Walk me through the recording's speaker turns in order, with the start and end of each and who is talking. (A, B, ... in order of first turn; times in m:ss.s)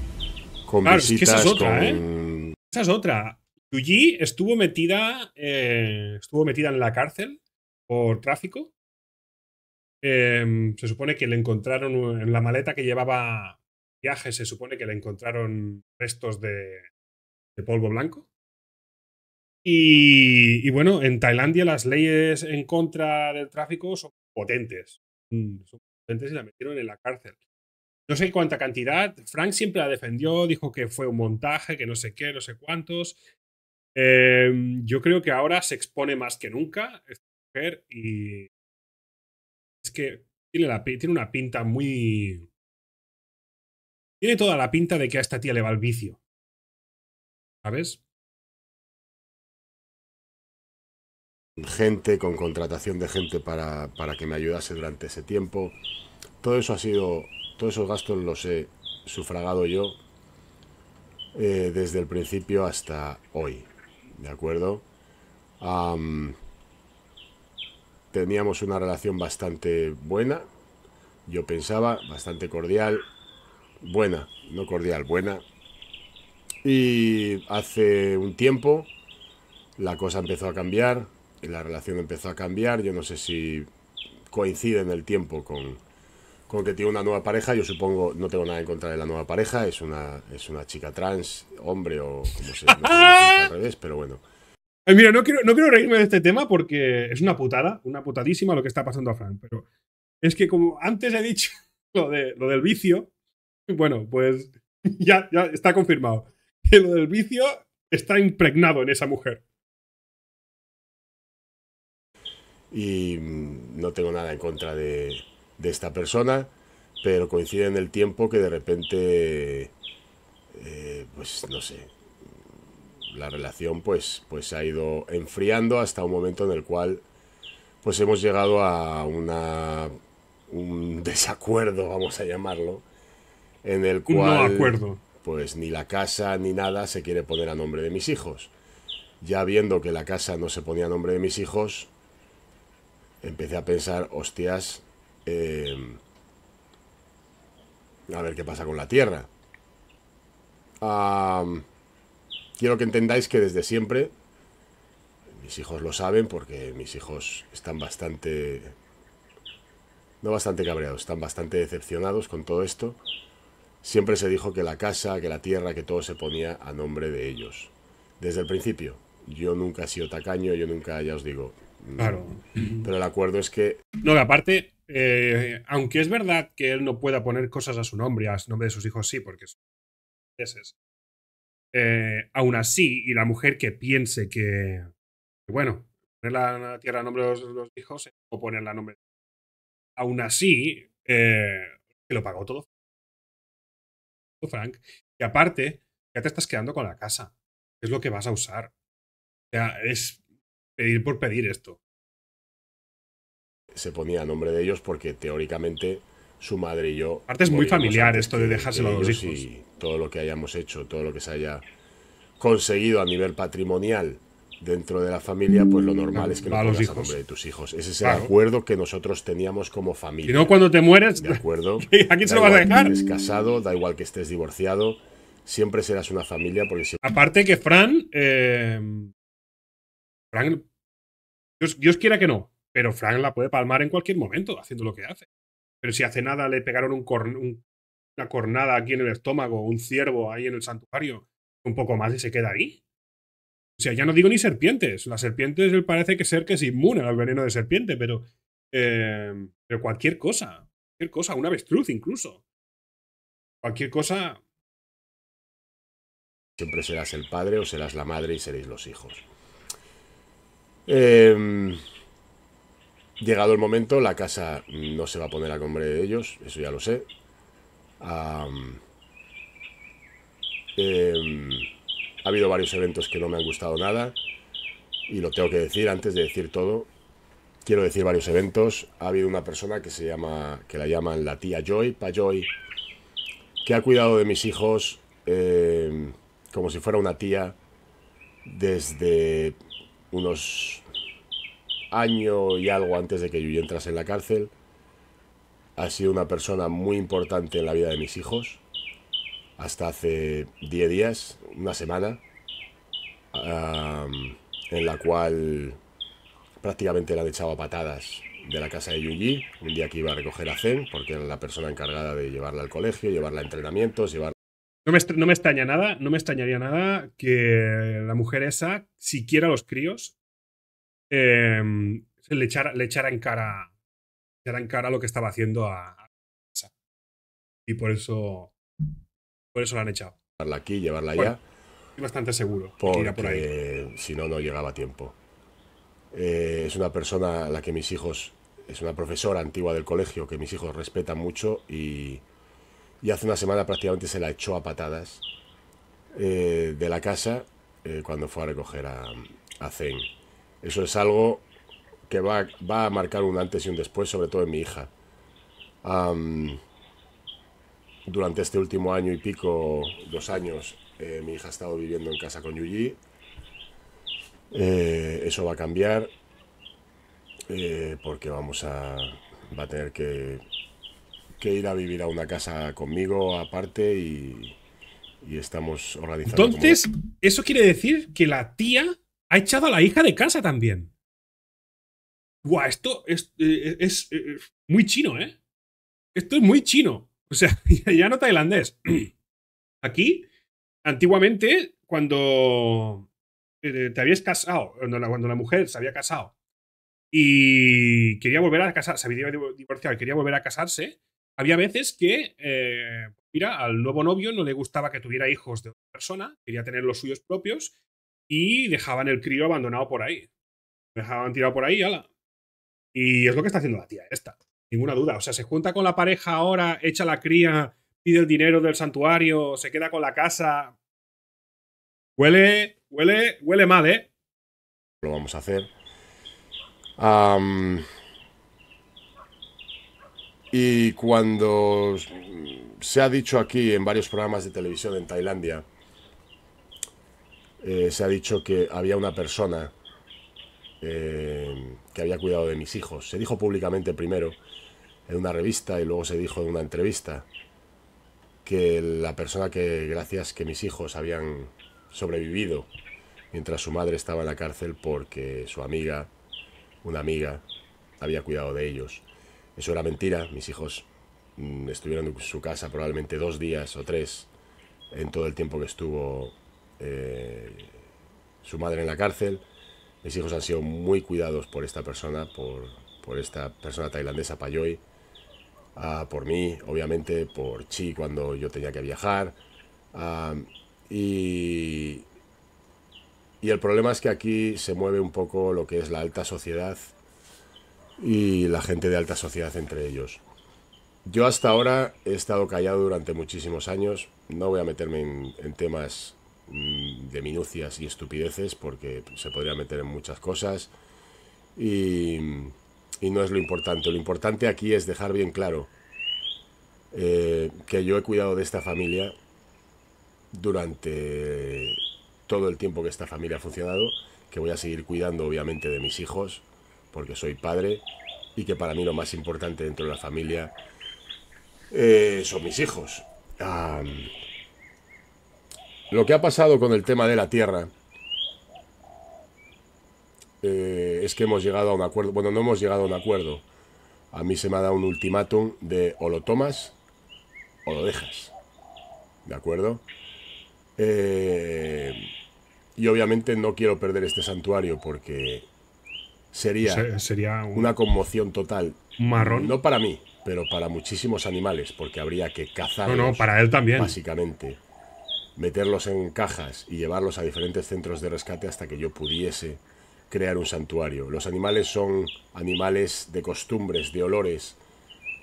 0:00.7-0:02.6 A
0:00.8-0:02.0 B
0:02.7-0:08.7 B
0:10.0-0:16.9 B
0:17.6-0:18.3 B
0:19.6-0:27.4 B
0:28.1-0:33.2 B
0:34.0-0:38.5 B
0:39.8-0:42.5 B
0:44.2-0:46.2 B
0:47.6-0:48.0 B
0:51.6-0:55.8 A
0:56.4-1:00.0 A
1:01.3-1:04.8 A
1:05.6-1:06.4 A
1:08.1-1:10.5 A
1:11.3-1:13.1 A
1:13.8-1:15.4 A
1:16.6-1:18.9 A
1:19.8-1:23.7 A
1:24.3-1:25.8 A
1:26.5-1:34.2 A
1:32.5-1:33.5 B
1:34.9-1:39.7 B
1:40.2-1:43.1 B
1:43.7-1:49.4 B
1:52.7-1:59.7 A
2:00.5-2:01.9 A
2:03.1-2:07.0 A
2:07.8-2:09.9 A
2:10.5-2:12.8 A
2:13.6-2:18.5 A
2:14.1-2:15.0 B
2:19.2-2:21.9 A
2:23.2-2:26.0 A
2:28.1-2:29.3 A
2:30.8-2:31.7 A
2:32.6-2:34.1 A
2:35.3-2:38.8 A
2:40.2-2:43.0 A
2:43.8-2:53.8 A
2:52.0-2:52.9 B
2:54.0-2:59.6 B
3:00.4-3:00.8 B
3:01.7-3:04.9 B
3:05.5-3:09.0 B
3:10.0-3:12.7 B
3:14.4-3:18.7 B
3:19.5-3:20.2 B
3:20.8-3:21.8 B
3:23.7-3:31.6 A
3:27.3-3:29.4 B
3:32.4-3:40.6 A
3:36.2-3:37.1 B
3:38.0-3:38.3 B
3:40.3-3:42.9 B
3:41.2-3:47.0 A
3:47.0-3:49.1 B
3:50.3-3:50.7 B
3:51.6-3:55.3 B
3:55.8-3:57.6 B
3:58.2-4:02.8 B
4:03.8-4:12.4 B
4:13.6-4:14.4 B
4:16.6-4:19.3 A
4:20.9-4:21.8 A
4:23.2-4:27.1 A
4:28.0-4:28.8 A
4:30.8-4:31.7 A
4:32.2-4:34.2 A
4:35.1-4:36.9 A
4:37.6-4:42.5 A
4:43.6-4:47.6 A
4:48.4-4:49.6 A
4:50.1-4:50.8 A
4:51.9-4:54.5 A
4:55.8-4:58.6 A
4:59.6-5:02.2 A
5:03.3-5:05.8 A
5:06.6-5:14.4 A
5:14.9-5:20.2 B
5:21.1-5:23.7 B
5:24.4-5:26.7 B
5:27.7-5:28.6 B
5:29.5-5:30.2 B
5:30.4-5:31.4 A
5:32.0-5:33.5 B
5:32.8-5:35.2 A
5:36.1-5:42.2 A
5:43.0-5:45.2 A
5:46.2-5:50.1 A
5:50.6-5:51.5 A
5:52.1-5:54.9 A
5:55.8-5:56.6 A
5:58.0-6:03.0 A
6:04.5-6:06.1 A
6:07.5-6:10.4 A
6:11.4-6:14.6 A
6:15.2-6:16.8 A
6:16.3-6:20.9 B
6:22.4-6:25.4 B
6:26.2-6:29.1 B
6:29.8-6:30.3 B
6:30.8-6:33.1 B
6:33.6-6:36.3 B
6:37.1-6:47.7 B
6:48.3-6:50.3 B
6:51.0-6:52.1 B
6:52.9-7:00.8 B
7:02.2-7:04.1 B
7:05.0-7:05.7 A
7:07.0-7:07.8 A
7:10.5-7:15.7 A
7:17.6-7:19.7 A
7:20.8-7:24.4 A
7:25.1-7:27.3 A
7:28.4-7:32.7 A
7:33.3-7:36.1 A
7:36.8-7:37.4 A
7:38.0-7:44.3 A
7:44.9-7:47.7 A
7:48.4-7:49.4 A
7:50.0-7:54.8 A
7:55.8-7:59.4 A
7:59.9-8:02.1 A
8:03.4-8:06.9 A
8:08.0-8:10.2 A
8:11.0-8:20.7 A
8:21.6-8:25.7 A
8:26.9-8:29.1 A
8:30.3-8:40.6 A
8:41.7-8:44.1 A
8:45.9-8:47.7 A
8:50.4-8:53.5 A
8:54.1-8:56.8 A
8:57.6-8:58.4 A
8:59.2-8:59.8 A
9:00.8-9:02.1 A
9:02.8-9:05.5 A
9:06.3-9:06.9 A
9:06.6-9:07.7 B
9:07.6-9:14.6 A
9:09.0-9:09.6 B
9:12.9-9:14.0 B
9:15.4-9:24.6 A